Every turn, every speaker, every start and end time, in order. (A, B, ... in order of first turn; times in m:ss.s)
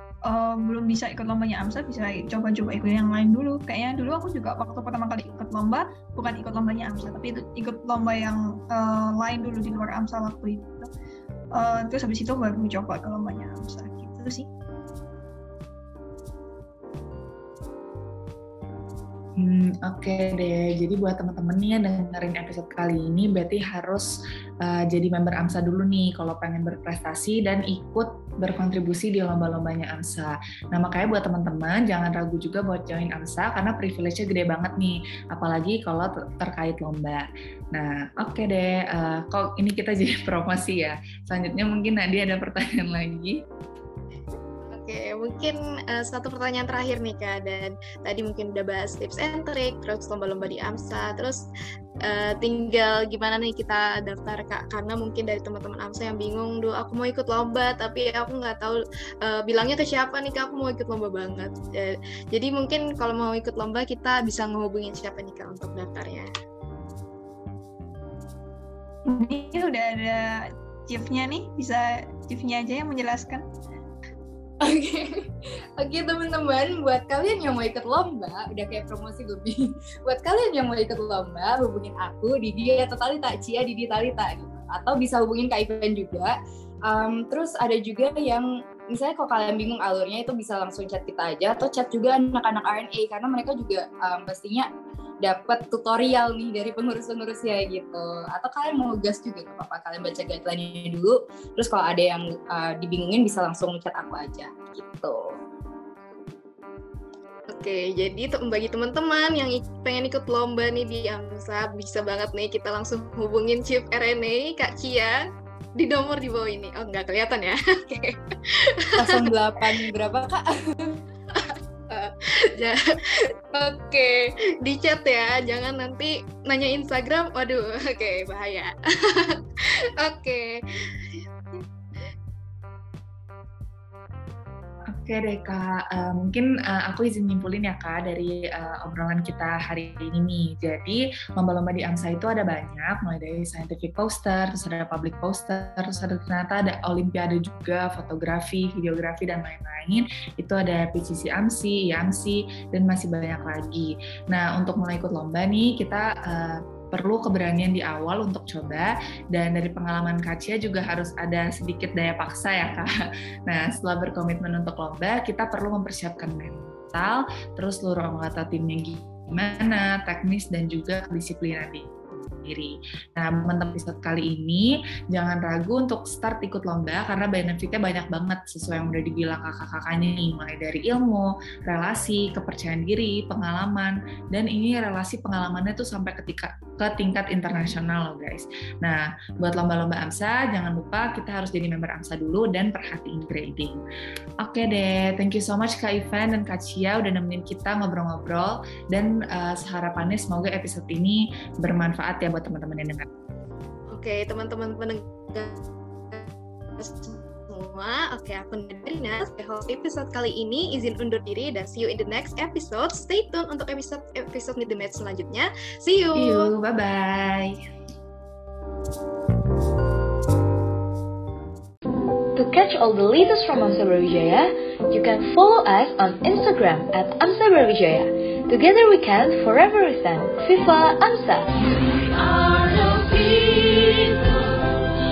0:00.2-0:10.9 A
0:11.5-0:14.5 A
0:19.4-0:24.1 B
0:24.6-0:43.4 B
0:44.7-0:51.4 C
0:52.0-1:06.3 C
1:09.1-1:13.5 A
1:14.6-1:34.7 D
1:35.2-1:45.3 D
1:47.5-1:55.2 C
1:55.8-1:59.3 C
1:59.0-2:01.0 D
2:01.3-2:09.4 C
2:10.0-2:11.6 C
2:14.9-2:42.9 B
2:43.5-2:51.9 B
2:52.4-3:13.8 B
3:14.4-3:23.1 B
3:23.9-3:36.5 C
3:36.2-3:37.6 B
3:42.4-3:54.7 E